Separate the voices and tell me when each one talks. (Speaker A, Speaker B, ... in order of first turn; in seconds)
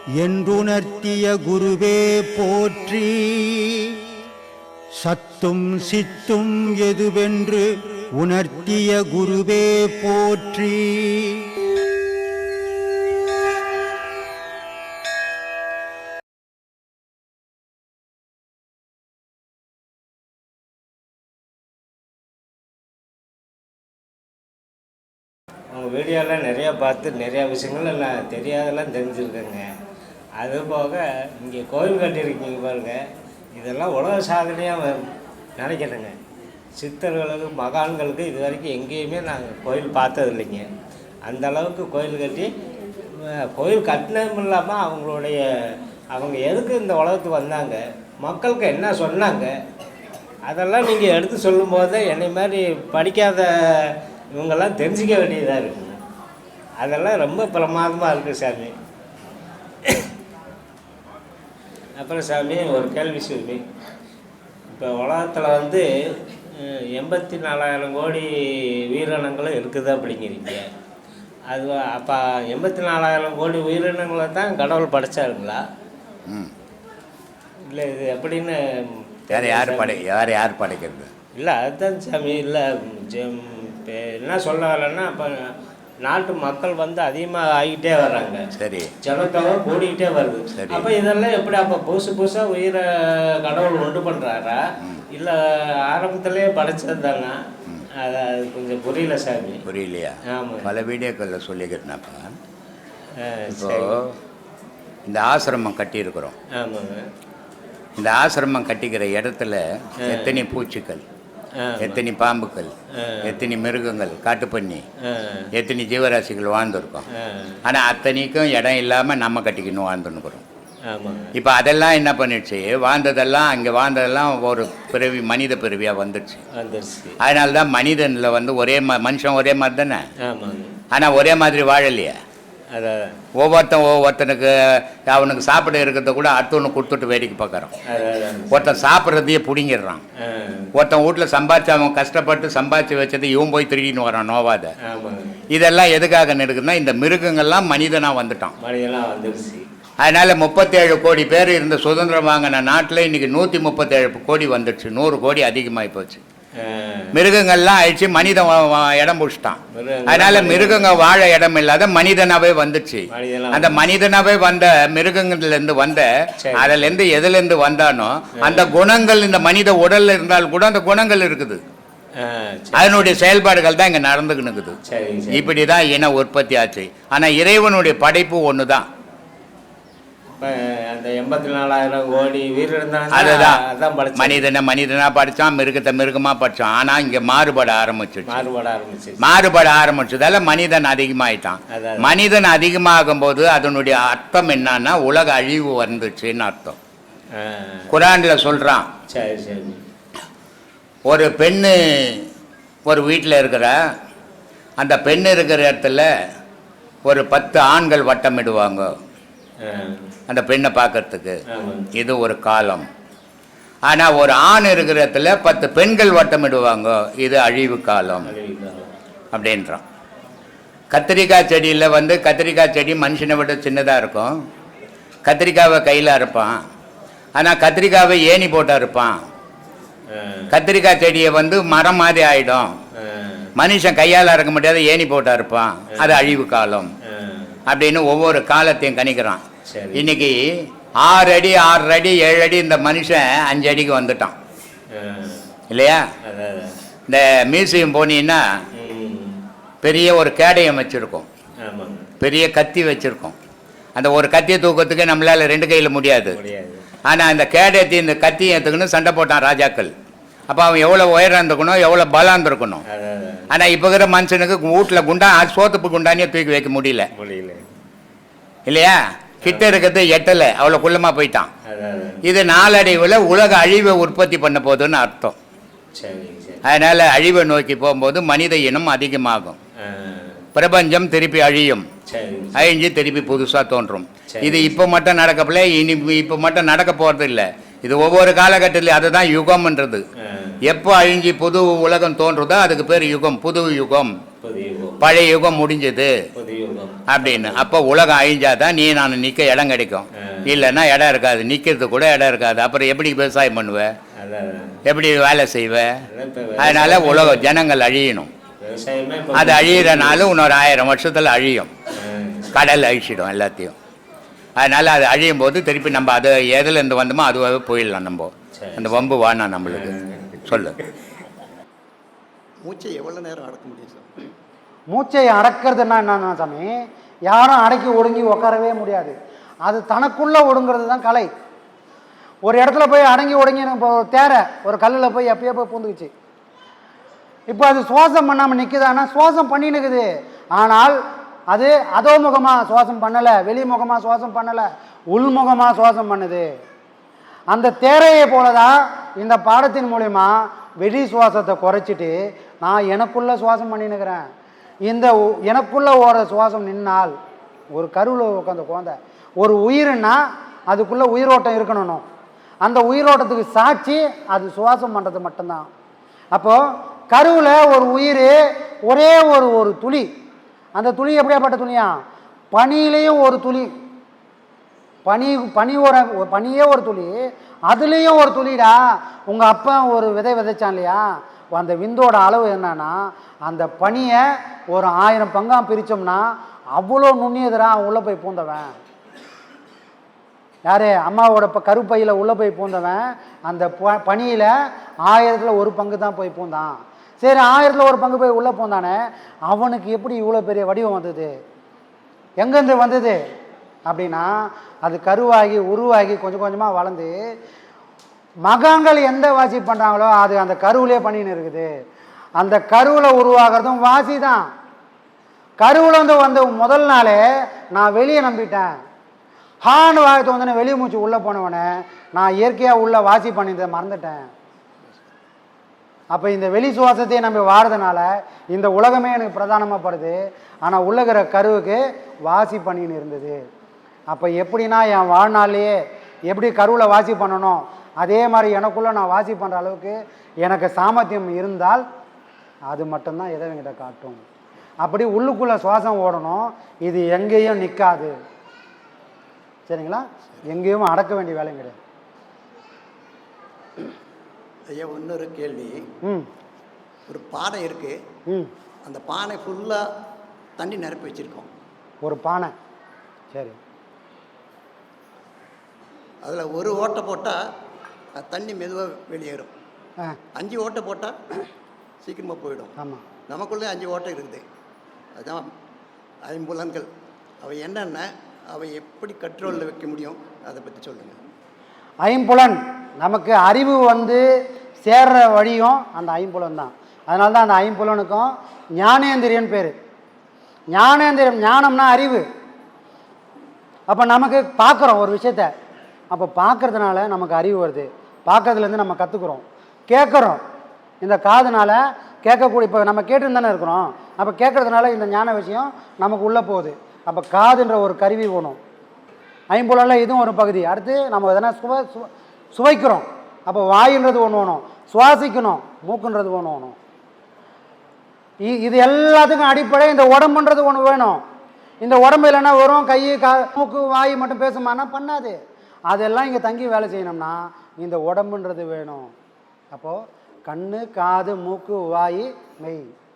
Speaker A: 0.2-4.0, 5.0-11.4
Speaker B: 25.7-29.7, 30.4-36.2, 36.8-40.7, 41.3-42.5, 43.1-49.6, 50.5-56.0, 56.8-58.8, 59.9-60.1, 62.0-63.6, 64.7-70.7, 71.5-75.6, 77.7-80.0, 81.4-88.5, 89.0-94.6, 95.1-97.4, 98.0-99.6, 100.3-100.7, 103.2-104.0, 106.5-107.1, 110.0-110.4, 111.6-112.0, 113.0-113.4, 115.1-115.5, 117.2-117.6, 120.9-121.3, 126.6-127.2, 130.2-130.8, 132.7-133.2, 137.9-138.8, 140.3-140.7, 144.9-145.3, 148.6-149.7, 156.6-157.1, 159.8-161.0, 163.1-163.8, 166.4-166.9, 168.4-168.7, 172.2-173.1, 174.9-175.5, 180.4-184.4, 188.3-189.2, 191.8-192.1, 197.4-197.8, 199.1-199.8, 209.7-210.0, 211.5-211.9, 218.2-218.9, 230.1-230.4, 233.0-233.5, 237.1-237.5, 239.7-240.1, 244.9-245.4, 246.2-246.7, 248.8-249.4, 251.7-252.1, 256.3-256.8, 262.9-263.4, 267.2-267.6, 269.5-269.8, 271.7-272.2, 276.0-276.6, 279.9-280.4, 282.1-282.7, 284.3-284.7, 294.4-295.1, 296.4-297.6, 304.2-304.8, 306.1-307.5, 308.6-310.3, 312.0-312.5, 318.6-319.1, 319.7-320.7
Speaker C: 76.3-76.5, 79.3-81.1, 88.6-88.9, 90.5-90.9, 99.7-102.3, 103.5-104.0, 105.1-106.3, 108.0-111.0, 111.8-112.7, 113.2-114.8, 115.5-117.1, 117.7-120.4, 121.3-126.4, 127.2-130.0, 130.9-132.2, 133.4-137.7, 138.5-140.0, 140.8-144.7, 145.5-148.6, 150.0-156.2, 157.1-171.6, 172.7-174.8, 175.3-178.9, 183.1-183.6, 184.2-188.4, 189.2-196.8, 197.9-198.9, 201.1-202.2, 202.9-203.8, 204.8-206.1, 207.0-208.9, 210.3-211.4, 211.9-212.9, 213.8-218.3, 219.3-219.8, 220.9-224.3, 225.2-226.6, 227.4-229.2, 230.5-232.7, 233.6-236.9, 237.7-239.4, 239.9-240.4, 241.0-244.3, 245.7-246.1, 247.1-248.4, 249.8-251.3, 252.2-253.3, 253.9-256.4, 257.1-259.9, 260.5-262.8, 263.5-267.1, 268.7-271.5, 272.2-275.4, 276.6-279.6, 280.6-281.9, 282.6-290.0, 290.6-294.2, 295.0-296.1, 297.1-303.9, 304.9-305.9, 306.6-308.3, 309.3-311.7, 312.5-313.7, 314.6-320.8
Speaker D: 322.6-324.1, 454.7-455.9, 457.1-458.0, 458.8-459.9, 460.6-461.5, 466.2-467.4, 468.1-469.5, 470.4-471.2, 472.0-472.7, 473.3-474.4, 475.1-475.5, 476.2-476.9, 477.4-481.2
Speaker E: 324.9-326.7, 327.3-331.3, 332.4-336.1, 337.5-341.0, 341.5-346.5, 347.5-354.2, 354.9-357.1, 357.7-360.2, 360.7-362.0, 362.6-365.7, 366.3-370.1, 370.8-371.9, 372.5-373.7, 375.1-377.2, 377.7-388.7, 390.7-394.5, 395.1-401.3, 402.4-403.2, 403.9-407.2, 408.5-411.7, 412.4-414.5, 415.6-417.2, 417.7-418.7, 419.6-424.3, 426.1-433.4, 434.1-441.8, 442.7-444.2, 444.8-448.1, 449.7-451.8, 462.0-462.5, 463.3-463.6, 472.8-473.0, 482.0-484.2, 484.8-489.7, 490.7-492.2, 493.9-495.5, 496.1-500.4, 501.0-508.6, 509.5-516.8, 518.4-521.2, 521.8-525.4, 525.9-529.1, 529.7-532.8